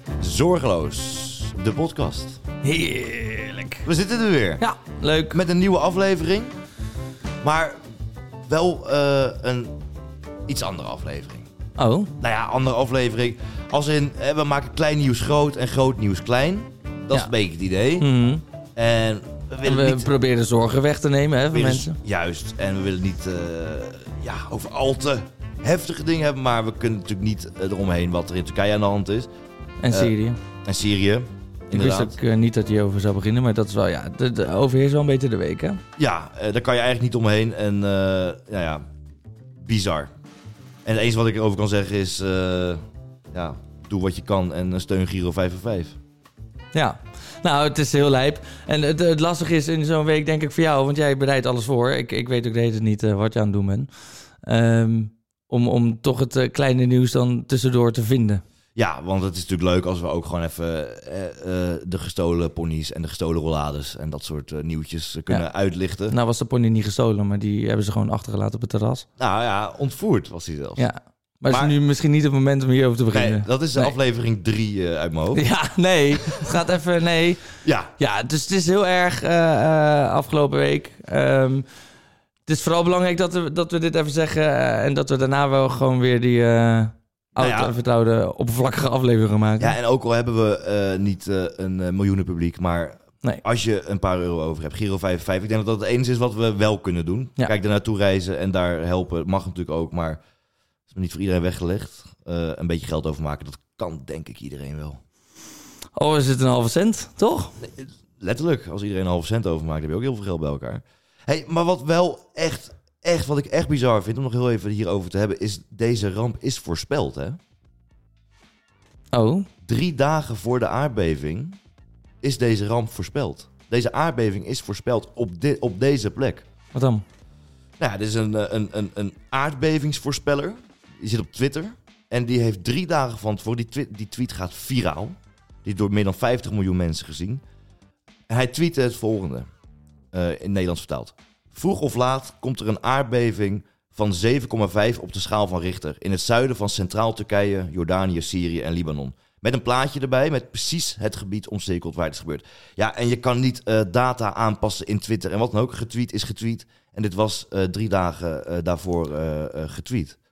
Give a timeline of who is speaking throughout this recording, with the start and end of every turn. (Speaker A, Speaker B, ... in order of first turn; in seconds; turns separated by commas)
Speaker A: 0.2-2.4, Speaker B: 2.6-3.8, Speaker A: 3.8-4.6, Speaker B: 4.6-5.4, Speaker A: 5.3-6.6, Speaker A: 7.4-7.8, Speaker A: 8.5-9.8, Speaker A: 10.5-11.5, Speaker B: 11.8-12.1, Speaker A: 12.2-18.1, Speaker B: 18.0-18.4, Speaker A: 18.8-20.1, Speaker B: 19.6-22.0, Speaker A: 21.5-29.3, Speaker B: 29.8-30.4, Speaker A: 30.6-32.2, Speaker B: 31.7-35.8, Speaker A: 36.0-38.9, Speaker A: 39.6-40.1, Speaker A: 40.9-42.8, Speaker A: 43.3-46.0, Speaker B: 46.7-53.9, Speaker B: 54.4-58.4, Speaker A: 58.8-66.2, Speaker B: 66.1-69.1, Speaker A: 69.2-70.9, Speaker B: 70.8-73.9, Speaker A: 73.1-75.5, Speaker B: 75.3-77.4, Speaker A: 77.7-77.9, Speaker B: 78.0-81.7, Speaker B: 82.5-89.8, Speaker A: 87.4-87.7, Speaker A: 89.6-100.2, Speaker A: 100.9-105.0, Speaker B: 106.0-107.6, Speaker A: 107.6-117.4, Speaker B: 119.1-119.5, Speaker A: 119.7-121.6, Speaker A: 122.2-126.5, Speaker B: 126.7-127.0, Speaker A: 127.8-137.4, Speaker A: 138.3-139.5, Speaker A: 140.1-160.2